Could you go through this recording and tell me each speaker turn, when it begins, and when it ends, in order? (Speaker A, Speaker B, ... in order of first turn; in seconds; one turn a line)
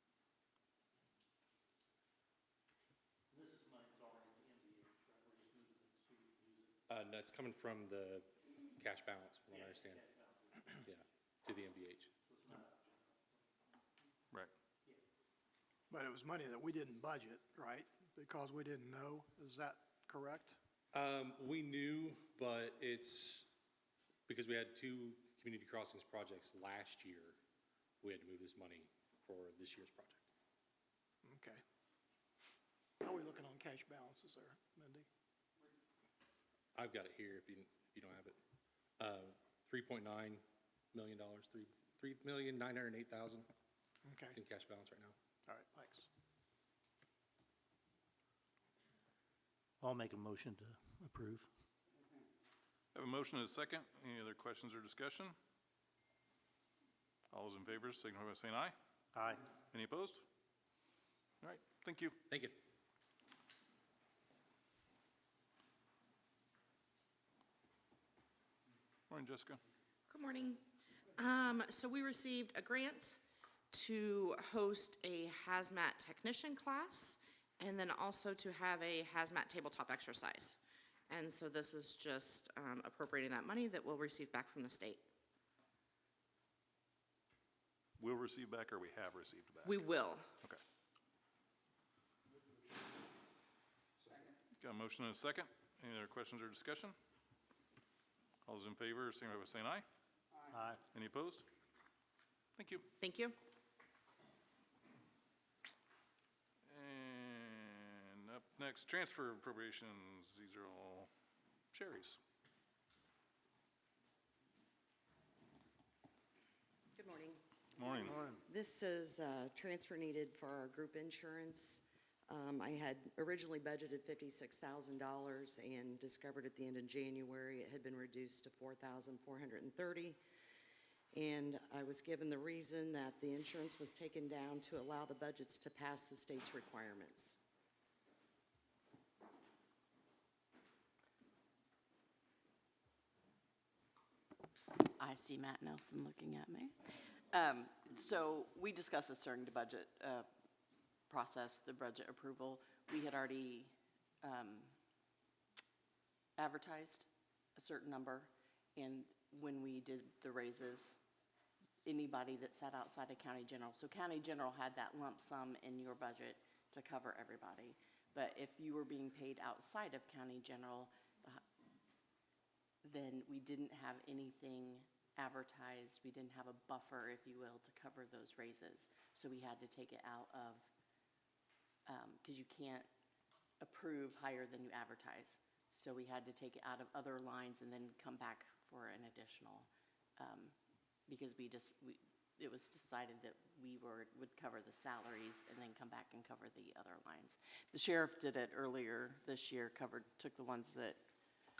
Speaker A: 3.3-6.7
Speaker B: 6.9-10.1
Speaker A: 9.5-10.8
Speaker B: 10.8-12.1
Speaker A: 12.3-13.4
Speaker C: 15.9-20.6
Speaker B: 20.9-23.5
Speaker B: 24.3-27.4
Speaker B: 28.0-30.3
Speaker C: 31.2-31.6
Speaker C: 33.0-35.0
Speaker B: 36.7-38.4
Speaker B: 39.0-43.5
Speaker C: 44.0-44.4
Speaker B: 44.3-45.1
Speaker C: 45.5-46.1
Speaker D: 49.8-51.5
Speaker E: 52.9-55.4
Speaker E: 57.3-58.7
Speaker D: 59.1-59.4
Speaker E: 59.7-60.2
Speaker E: 61.4-62.1
Speaker B: 62.3-62.6
Speaker E: 69.1-69.6
Speaker F: 70.1-70.6
Speaker F: 71.2-73.2
Speaker F: 73.7-85.0
Speaker E: 88.0-89.8
Speaker F: 89.6-90.3
Speaker E: 94.6-96.9
Speaker E: 98.5-99.8
Speaker D: 100.5-100.8
Speaker E: 100.9-101.5
Speaker E: 102.6-102.9
Speaker F: 103.0-103.4
Speaker E: 106.7-111.1
Speaker E: 111.7-112.2
Speaker G: 116.9-117.4
Speaker E: 117.8-118.3
Speaker G: 118.5-130.2
Speaker G: 131.1-137.4
Speaker H: 145.0-150.3
Speaker H: 151.1-154.7
Speaker H: 156.4-161.0
Speaker H: 161.8-171.4
Speaker H: 172.8-180.7
Speaker H: 181.8-182.9
Speaker H: 183.6-190.5
Speaker H: 191.1-201.0